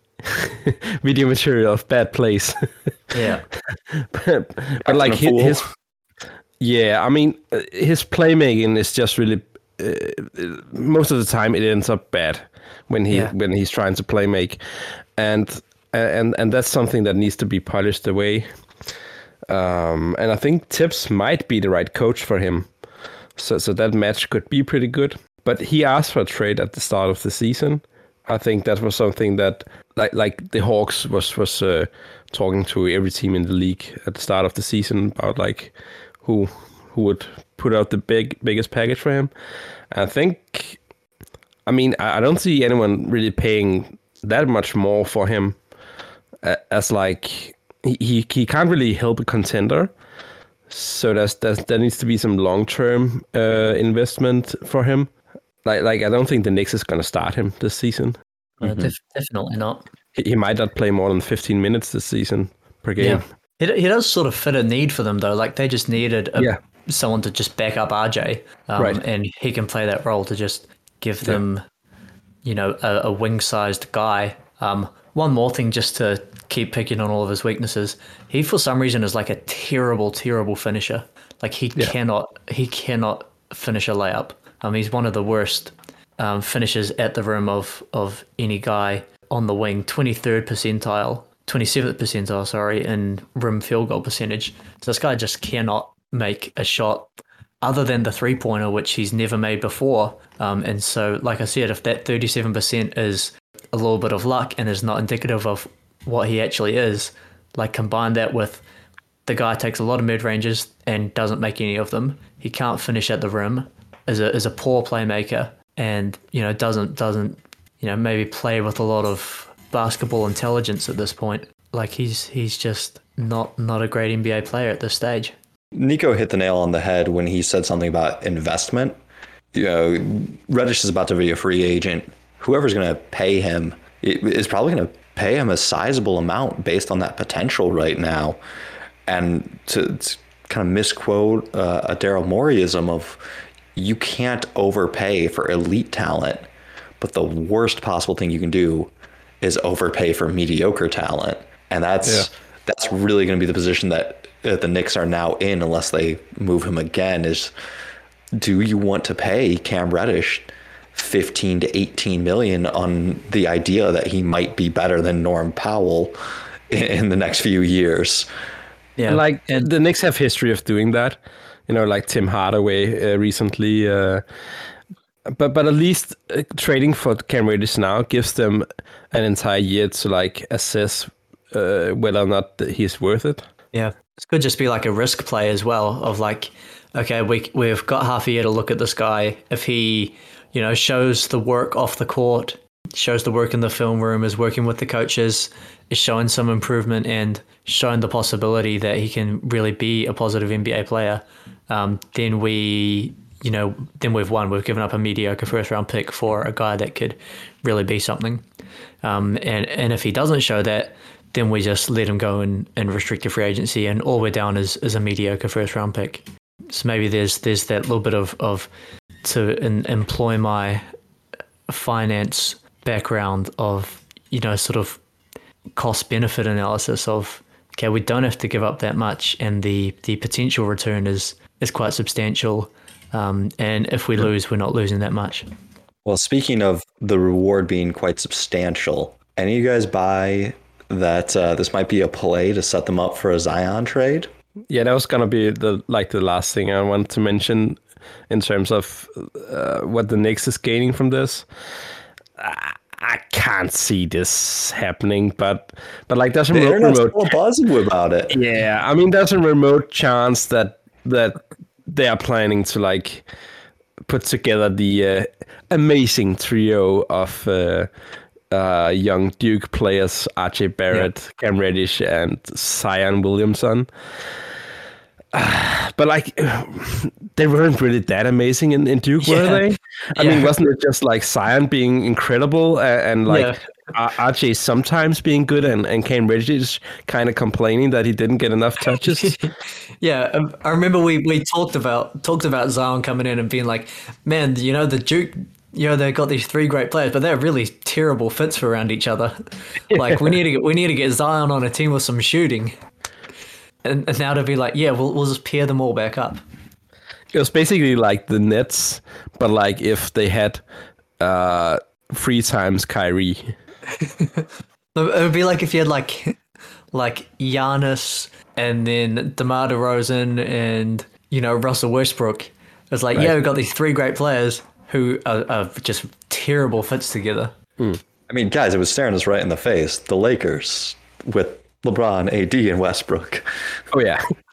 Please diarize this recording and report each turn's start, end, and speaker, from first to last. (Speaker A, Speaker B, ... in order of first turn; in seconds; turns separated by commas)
Speaker A: 0.2-5.6, Speaker B: 3.1-3.5, Speaker C: 4.8-5.7, Speaker A: 6.6-18.5, Speaker A: 19.5-22.7, Speaker A: 23.4-39.3, Speaker A: 39.9-40.8, Speaker A: 41.7-45.6, Speaker A: 46.4-49.9, Speaker A: 50.7-55.1, Speaker A: 55.6-58.9, Speaker B: 58.6-59.9, Speaker A: 60.1-63.2, Speaker B: 63.0-71.6, Speaker B: 72.5-97.1, Speaker B: 97.6-108.6, Speaker B: 109.3-125.3, Speaker C: 125.7-129.0, Speaker C: 129.5-138.4, Speaker C: 139.1-143.2, Speaker C: 143.8-146.5, Speaker C: 147.0-157.5, Speaker C: 158.4-166.2, Speaker C: 166.7-168.3, Speaker B: 169.0-169.7, Speaker A: 169.1-174.3, Speaker A: 175.3-183.5, Speaker B: 183.7-208.4, Speaker B: 209.0-218.7, Speaker B: 219.2-220.8, Speaker B: 221.7-225.0, Speaker B: 225.8-235.5, Speaker C: 236.1-244.3, Speaker A: 244.7-251.5, Speaker A: 252.4-257.3, Speaker C: 256.5-258.4, Speaker A: 258.3-263.3, Speaker A: 264.0-267.9, Speaker A: 268.5-274.3, Speaker A: 275.3-289.5, Speaker B: 279.2-279.6, Speaker B: 280.2-280.5, Speaker B: 283.3-283.6, Speaker B: 289.0-302.7, Speaker A: 299.9-300.4, Speaker B: 303.8-306.4, Speaker A: 307.3-310.6, Speaker A: 311.2-313.6, Speaker B: 313.9-316.4, Speaker B: 316.9-327.5, Speaker C: 328.3-333.5, Speaker A: 333.9-334.3